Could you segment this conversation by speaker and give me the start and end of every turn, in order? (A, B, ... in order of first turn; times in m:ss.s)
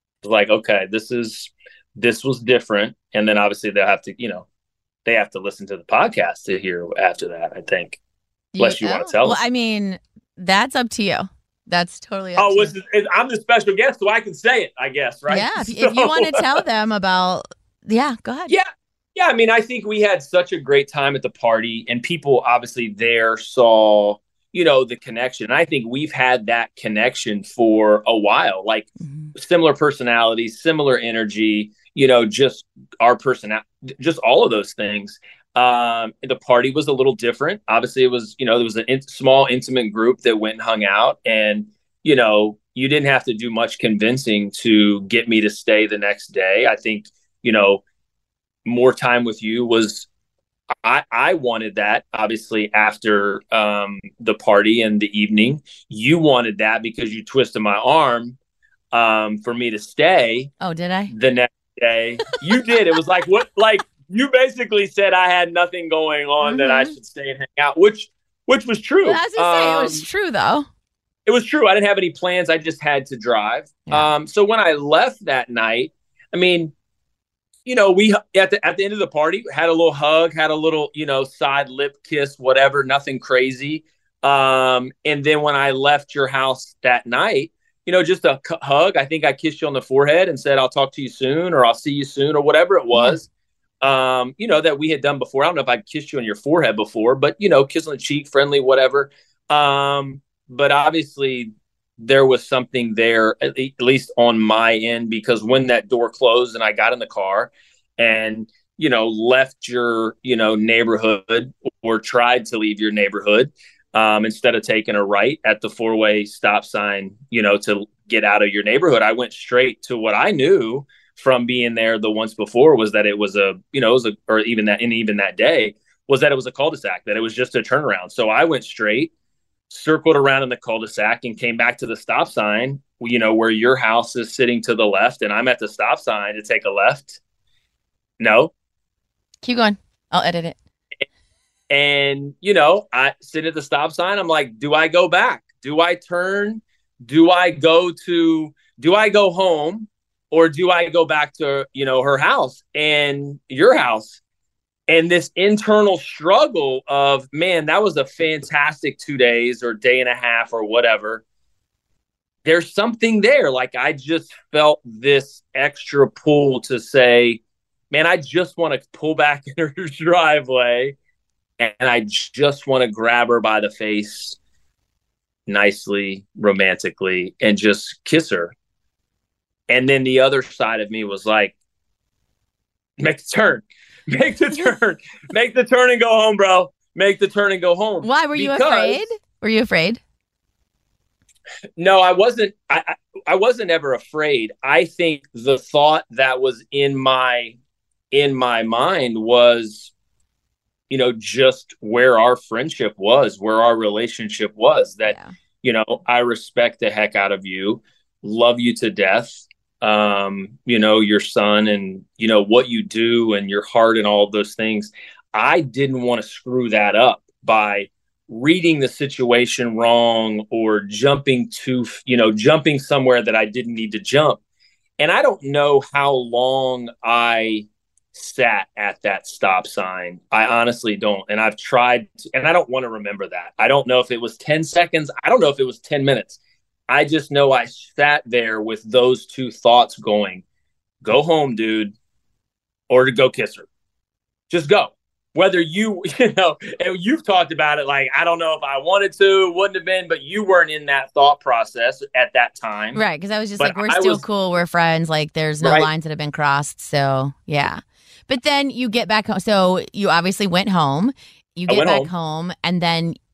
0:00.2-0:04.4 A
0:05.0-0:08.0 A
0:08.5-0:12.7 B
0:08.6-0:09.4 A
0:12.4-0:16.6 A
0:15.3-0:18.5 B
0:18.5-0:47.8 A
0:29.0-0:29.3 B
0:48.6-0:50.1 A
0:50.8-0:58.4 A
0:58.9-1:00.5 A
1:00.6-1:01.1 B
1:01.1-1:10.0 A
1:06.4-1:06.9 B
1:09.0-1:10.7 B
1:11.2-1:16.7 A
1:17.6-1:33.3 A
1:32.9-1:33.2 B
1:33.8-2:09.1 A
2:09.7-2:17.2 A
2:18.2-2:18.5 A
2:19.4-2:20.6 B
2:21.7-2:34.2 A
2:34.9-2:41.2 A
2:42.4-2:51.0 A
2:51.6-2:54.4 A
2:55.5-2:58.5 A
2:59.7-3:01.5 A
3:03.0-3:09.0 A
3:08.0-3:10.0 B
3:11.8-3:17.5 A
3:18.1-3:19.9 A
3:20.9-3:44.4 A
3:25.0-3:25.3 B
3:45.0-4:00.4 A
4:01.0-4:01.9 A
4:02.9-4:03.7 A
4:04.5-4:13.0 A
4:12.9-4:23.2 B
4:13.6-4:14.2 A
4:15.6-4:15.9 A
4:21.7-4:22.1 A